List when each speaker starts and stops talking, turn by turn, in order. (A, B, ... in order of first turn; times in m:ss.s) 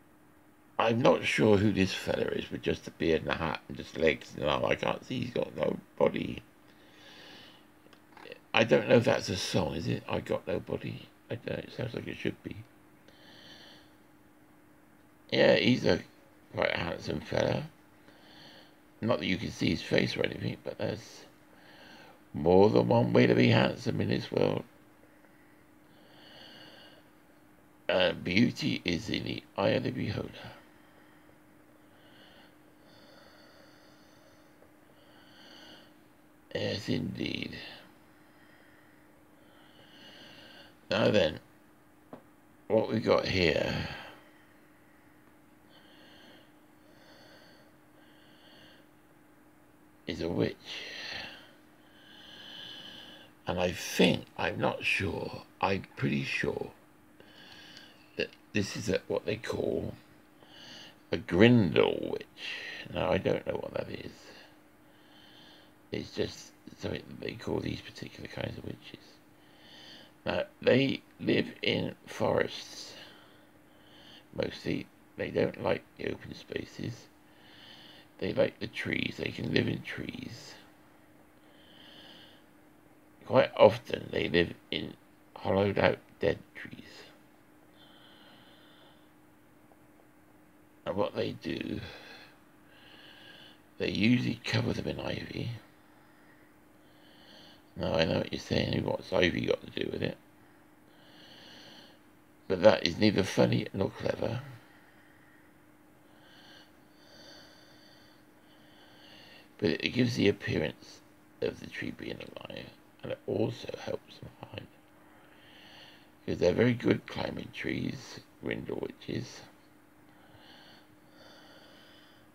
0:00.8-0:06.4 A
0:08.5-0:12.7 A
0:15.3-0:17.7 A
0:19.0-0:21.3 A
0:22.3-0:24.7 A
0:27.9-0:30.5 A
0:36.5-0:37.6 A
0:40.9-0:41.4 A
0:42.7-0:44.2 A
0:50.1-0:51.3 A
0:53.4-0:56.8 A
0:58.2-1:00.0 A
1:01.1-1:04.3 A
1:05.9-1:09.2 A
1:10.2-1:13.0 A
1:14.3-1:17.1 A
1:18.2-1:20.6 A
1:23.2-1:27.1 A
1:30.8-1:31.8 A
1:33.8-1:35.6 A
1:37.8-1:40.2 A
1:42.5-1:44.5 A
1:49.6-1:54.7 A
1:56.2-1:59.5 A